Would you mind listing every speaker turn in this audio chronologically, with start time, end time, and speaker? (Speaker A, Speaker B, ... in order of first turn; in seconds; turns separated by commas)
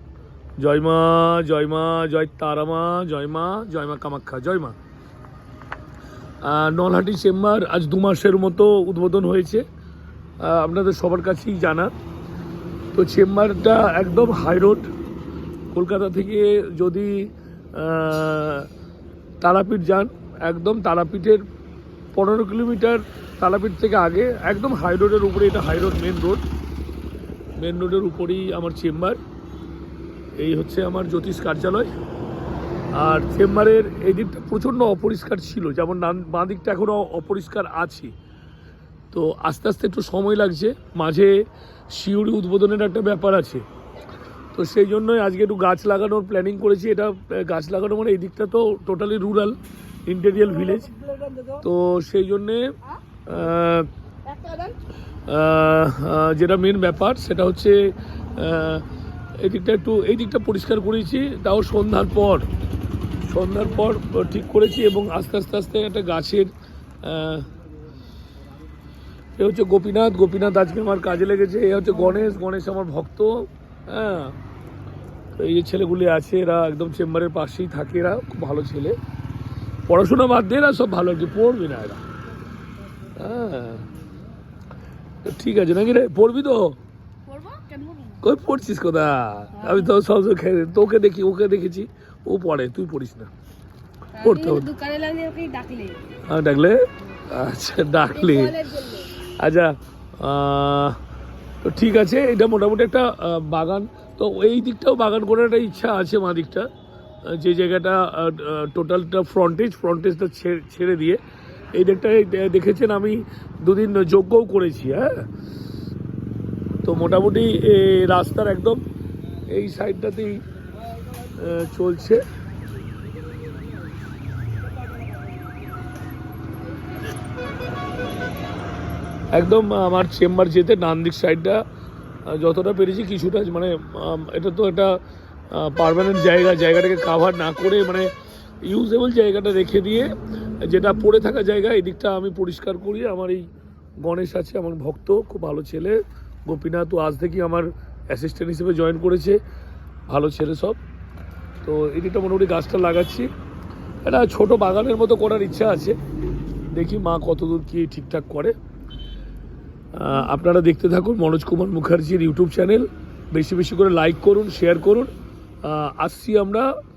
Speaker A: 0.6-4.7, Speaker A: 6.4-9.6, Speaker A: 10.4-11.9, Speaker A: 12.9-14.9, Speaker A: 15.7-18.7, Speaker A: 19.4-21.4, Speaker A: 22.1-26.4, Speaker A: 27.6-29.2, Speaker A: 30.4-31.9, Speaker A: 32.9-38.1, Speaker A: 39.1-41.3, Speaker A: 41.9-43.6, Speaker A: 44.5-50.9, Speaker A: 51.6-52.7, Speaker A: 53.3-53.9, Speaker B: 54.3-54.7, Speaker A: 55.3-58.8, Speaker A: 59.4-62.5, Speaker A: 63.3-66.5, Speaker A: 67.0-67.5, Speaker A: 69.4-74.3, Speaker A: 75.4-79.0, Speaker A: 79.9-82.0, Speaker A: 83.2-83.9, Speaker A: 85.3-86.8, Speaker B: 87.3-88.2, Speaker A: 88.2-93.3, Speaker B: 89.6-89.9, Speaker B: 94.2-96.0, Speaker A: 94.2-94.7, Speaker A: 96.2-98.5, Speaker B: 98.1-99.1, Speaker A: 99.4-101.0, Speaker A: 101.6-106.7, Speaker A: 107.3-111.2, Speaker A: 111.7-115.2, Speaker A: 116.8-118.8, Speaker A: 119.5-120.4, Speaker A: 121.3-122.2, Speaker A: 129.3-131.6, Speaker A: 132.3-135.0, Speaker A: 135.5-138.1, Speaker A: 138.7-140.1, Speaker A: 140.6-143.4, Speaker A: 144.0-149.4, Speaker A: 150.1-150.8, Speaker A: 151.6-153.3, Speaker A: 154.0-155.9, Speaker A: 156.7-158.5, Speaker A: 159.9-165.1, Speaker A: 165.6-166.7